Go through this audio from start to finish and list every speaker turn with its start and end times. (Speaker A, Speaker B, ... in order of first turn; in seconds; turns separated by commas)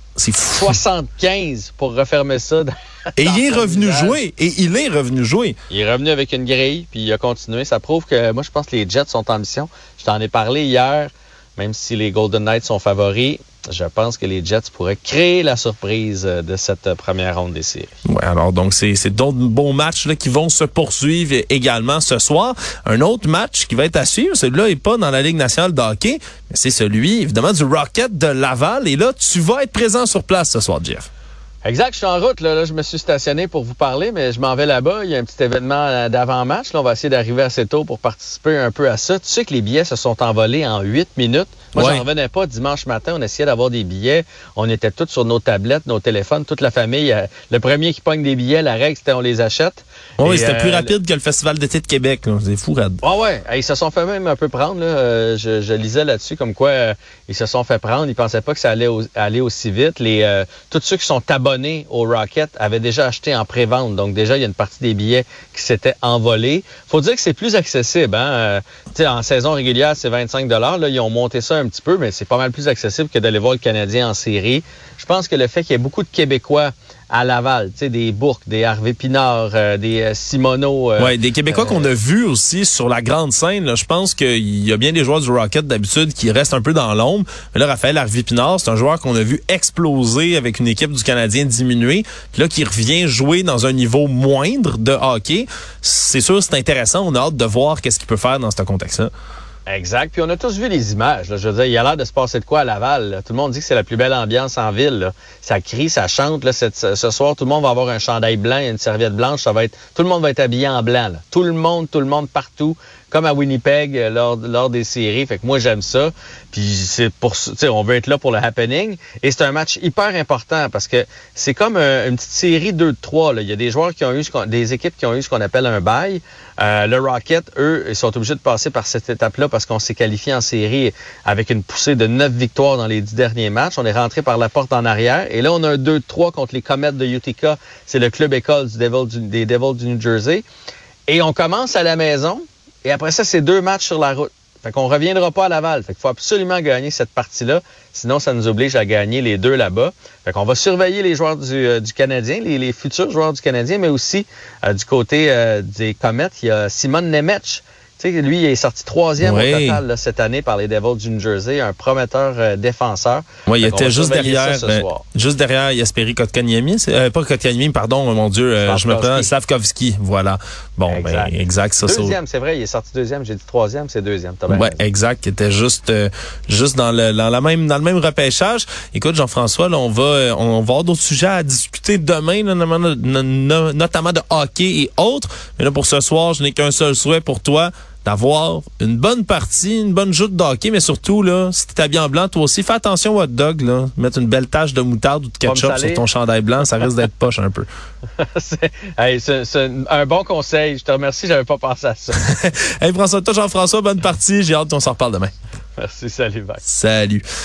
Speaker A: 0.2-0.7, Speaker B: 0.5-4.2, Speaker A: 3.2-5.5, Speaker B: 5.7-17.9, Speaker A: 18.1-31.1, Speaker B: 31.6-50.9, Speaker A: 41.8-42.0, Speaker A: 50.2-53.0, Speaker B: 53.0-81.9, Speaker A: 81.0-99.1, Speaker B: 99.7-140.4, Speaker B: 141.1-165.0, Speaker A: 159.2-159.8, Speaker A: 163.5-172.2, Speaker B: 168.6-169.3, Speaker B: 170.9-174.8, Speaker A: 174.5-197.7, Speaker B: 195.4-196.0, Speaker B: 198.2-202.2, Speaker A: 202.2-205.3, Speaker B: 205.8-206.6, Speaker A: 206.7-207.2